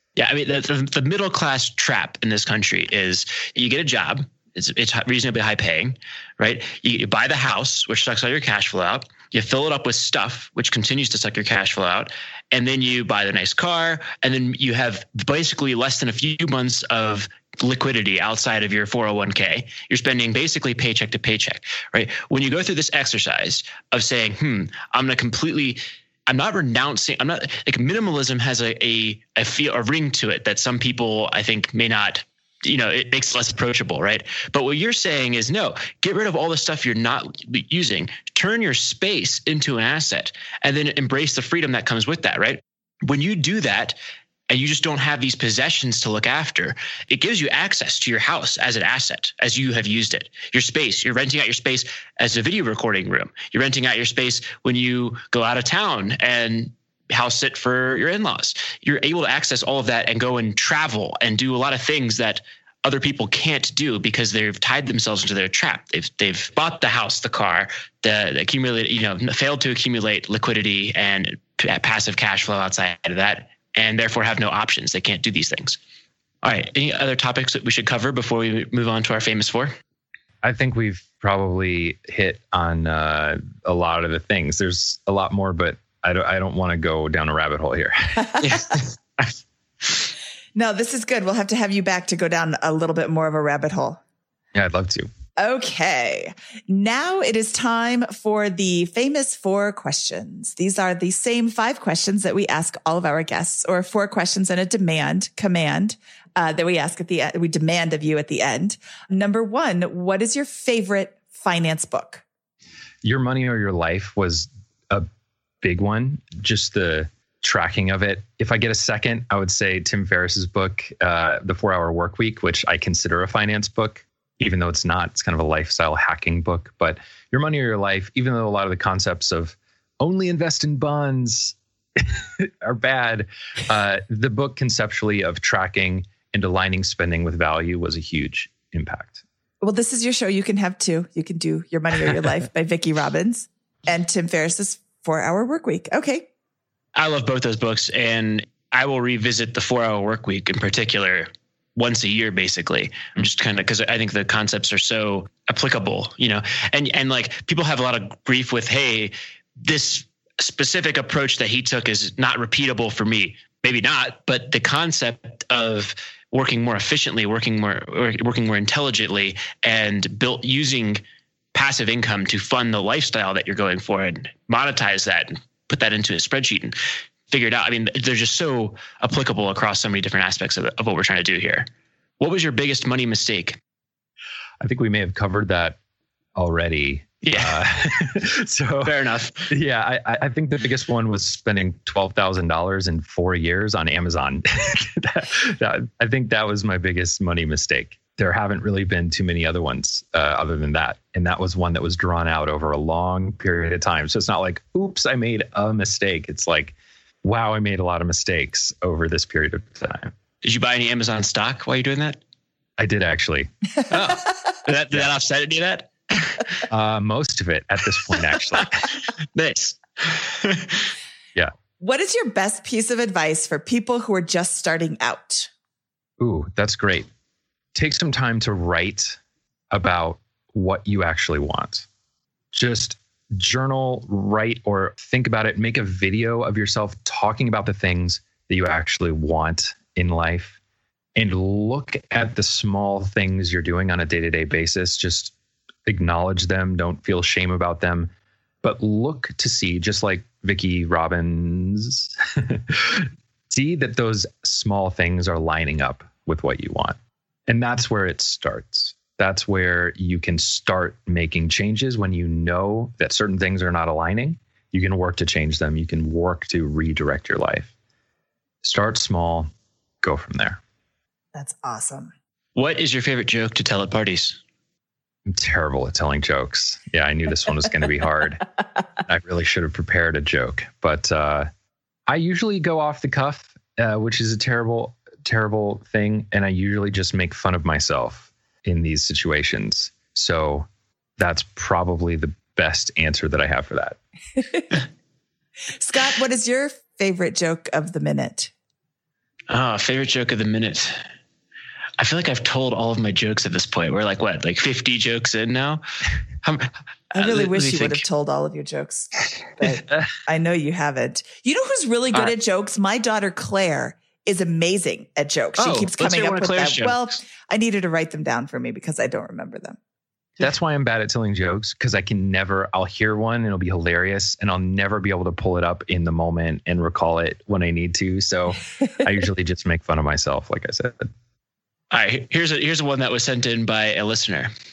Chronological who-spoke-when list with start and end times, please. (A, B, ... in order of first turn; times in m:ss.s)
0:00.2-0:44.0 A
0:44.5-1:15.8 A
1:16.4-1:19.7 A
1:20.4-1:28.5 B
1:28.3-1:28.6 C
1:28.4-1:29.3 A
1:30.6-1:34.0 C
1:34.5-1:35.1 B
1:35.4-1:52.2 C
1:53.0-1:55.1 B
1:55.6-2:19.2 B
2:19.6-2:26.3 C
2:27.0-2:51.0 A
2:51.5-2:56.7 A
2:57.3-3:01.7 A
3:02.2-3:03.6 A
3:04.6-3:05.8 B
3:06.4-3:30.1 B
3:07.2-3:07.7 A
3:08.8-3:09.5 A
3:30.4-3:32.2 A
3:32.8-3:34.2 B
3:34.6-3:36.4 A
3:36.7-3:38.9 B
3:38.5-3:40.9 A
3:41.8-3:45.5 C
3:46.2-3:47.1 B
3:47.7-3:49.2 B
3:49.7-3:51.9 B
3:52.5-4:00.6 B
4:01.2-4:05.3 B
4:05.9-4:08.1 B
4:08.6-4:17.0 B
4:17.5-4:27.7 B
4:28.6-4:29.5 B
4:30.0-4:30.6 B
4:31.3-4:32.1 C
4:32.6-4:34.4 A
4:35.3-4:38.5 B
4:39.0-4:41.5 B
4:42.1-4:50.7 B
4:51.2-4:54.0 B
4:55.8-4:58.5 C
4:59.5-5:01.0 A
5:02.0-5:05.8 A
5:06.4-5:08.0 A
5:07.2-5:19.8 C
5:15.6-5:17.0 A
5:20.4-5:31.1 B
5:31.9-5:34.5 A